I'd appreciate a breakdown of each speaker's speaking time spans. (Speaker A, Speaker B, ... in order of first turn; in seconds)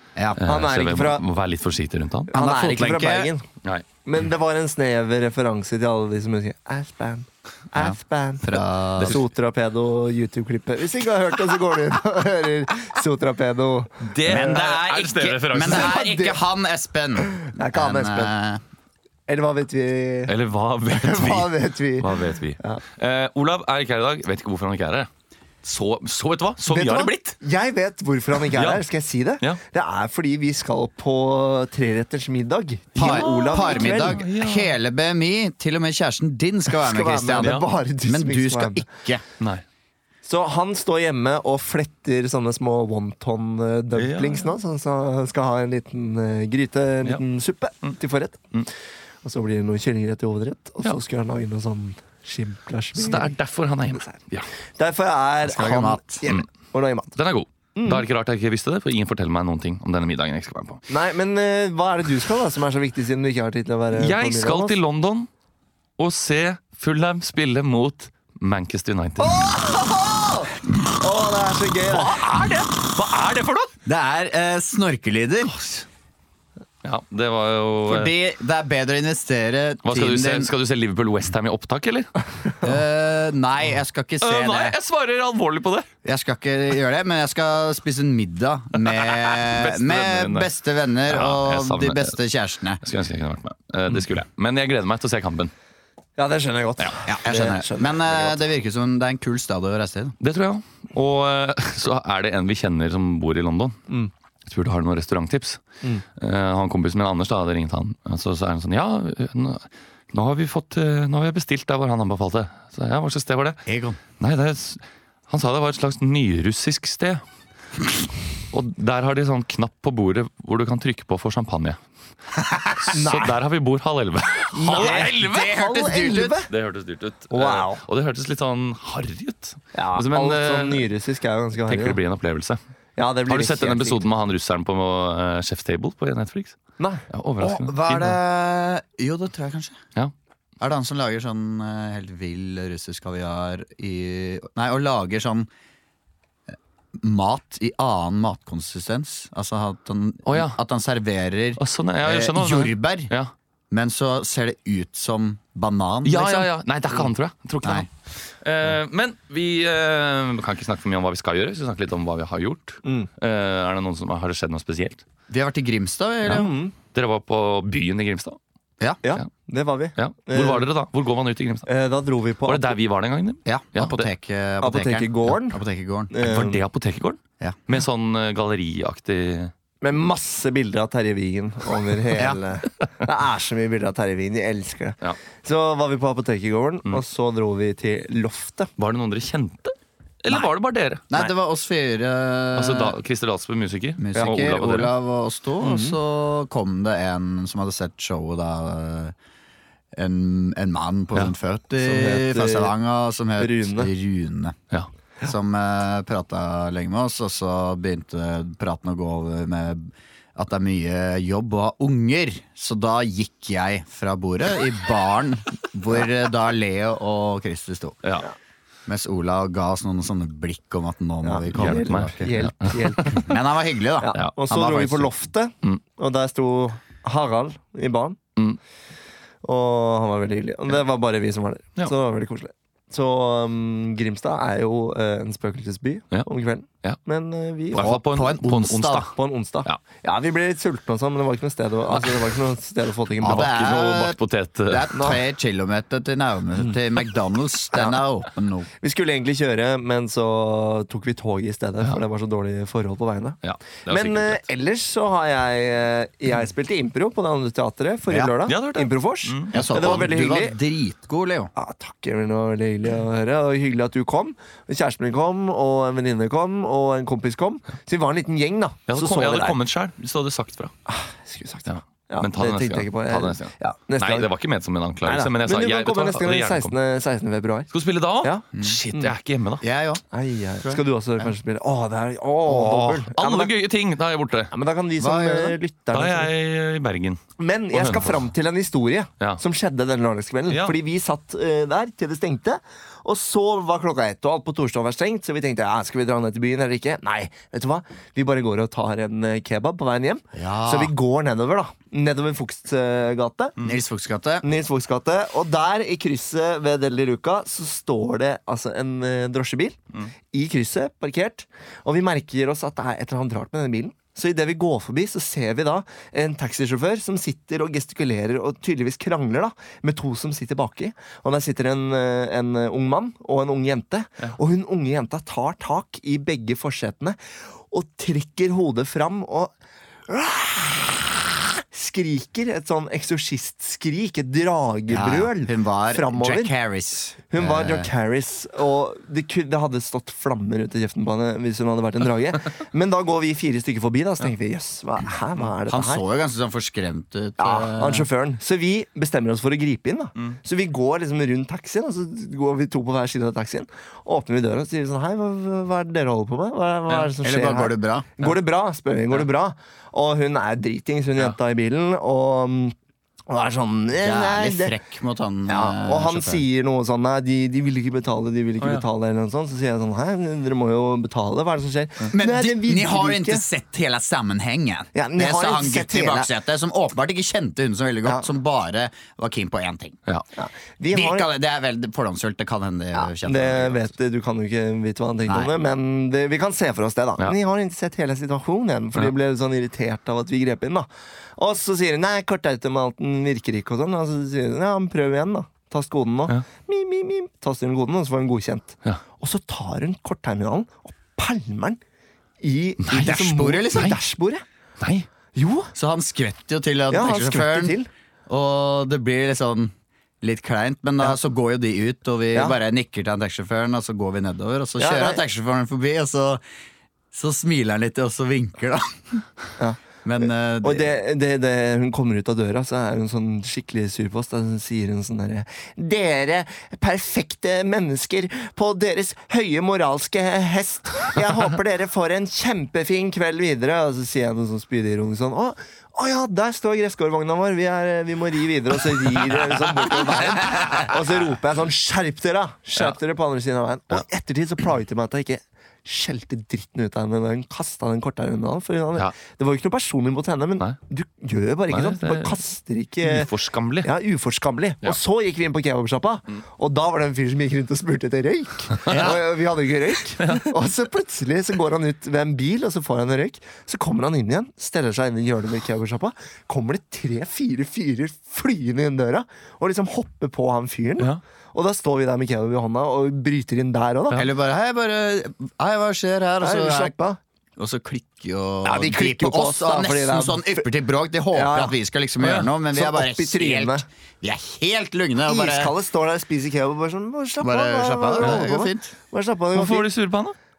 Speaker A: 0.1-0.4, 2.3-3.3, 7.7-9.2, 14.2-18.6, 32.9-39.2, 55.5-56.2, 73.8-75.5, 77.8-80.5, 82.6-84.8, 86.0-92.8, 97.0-100.2, 113.7-114.0, 122.3-122.9, 124.6-126.4, 137.4-139.8, 140.6-145.5, 146.5-153.1, 153.7-156.5, 165.3-166.5, 173.4-176.1, 191.1-193.0, 194.0-199.1, 199.9-204.6, 205.2-218.0, 218.9-222.5, 223.0-225.1, 237.7-239.1, 243.2-248.7, 258.1-258.4, 259.5-261.5, 278.5-278.8, 279.6-280.0, 280.6-281.3, 285.0-285.6, 300.3-300.9, 303.6-304.4, 334.9-337.9, 345.6-348.1, 357.2-358.1, 364.0-366.4, 372.1-380.0, 380.9-383.9, 385.3-385.5, 402.9-403.9, 405.7-407.8, 408.3-416.4, 417.1-419.2, 420.0-420.9, 458.9-459.1, 474.1-476.9, 477.6-485.7, 487.4-488.9
Speaker B: 0.3-2.3, 14.0-16.0, 20.3-25.1, 25.6-27.4, 28.5-28.8, 33.0-34.8, 37.4-37.7, 44.0-44.5, 53.0-54.5, 57.1-60.8, 63.9-65.3, 66.0-69.5, 71.9-73.7, 76.8-78.1, 79.8-82.1, 84.2-85.9, 88.9-90.5, 91.0-92.2, 92.8-95.5, 100.2-103.8, 104.4-105.6, 106.2-113.6, 114.2-117.2, 118.5-121.8, 122.8-125.5, 126.5-130.8, 131.6-132.6, 133.3-136.6, 137.1-138.2, 150.2-150.6, 151.6-153.3, 156.0-165.0, 166.9-168.4, 170.0-171.7, 172.4-174.1, 176.2-179.5, 188.8-191.3, 192.5-194.9, 221.5-223.3, 237.7-239.1, 243.2-244.9, 253.4-254.4, 258.4-260.1, 268.9-270.7, 271.7-276.7, 277.7-279.6, 282.5-284.5, 285.9-287.2, 287.7-288.2, 290.5-290.7, 368.6-368.9, 404.8-405.1, 440.1-440.8, 451.7-452.4, 453.0-453.9, 458.8-459.2, 460.2-460.5, 482.2-482.5, 489.5-490.3
Speaker C: 0.4-1.2, 2.3-3.4, 4.0-14.1, 15.6-16.4, 17.2-18.3, 19.3-20.3, 20.9-22.8, 26.7-34.2, 36.7-38.9, 40.2-48.4, 49.2-53.3, 53.9-54.2, 54.8-57.1, 57.8-58.0, 60.9-64.8, 69.2-72.2, 96.2-98.4, 122.9-123.4, 124.5-126.5, 127.3-127.8, 129.7-132.0, 133.0-134.0, 162.8-163.1, 166.2-166.7, 169.0-170.7, 171.7-172.7, 174.6-175.6, 176.1-176.6, 179.8-188.7, 194.1-194.4, 195.6-196.0, 201.8-202.7, 203.4-203.9, 221.2-223.3, 224.0-228.2, 229.4-237.9, 239.1-243.5, 244.9-245.2, 248.8-253.4, 253.9-260.6, 261.5-269.6, 270.9-274.3, 275.0-277.7, 278.2-279.1, 280.1-283.5, 284.5-286.3, 287.4-303.6, 304.4-309.8, 310.3-327.2, 327.7-329.5, 330.1-336.5, 337.3-346.0, 347.4-362.7, 363.3-364.8, 365.5-373.4, 374.9-376.3, 380.4-381.3, 382.9-401.8, 402.4-404.4, 405.4-405.7, 406.9-407.9, 412.3-412.6, 414.8-415.2, 419.6-453.3, 453.8-474.2, 476.4-477.2, 478.6-480.7, 481.3-481.8, 482.7-483.8, 485.2-489.9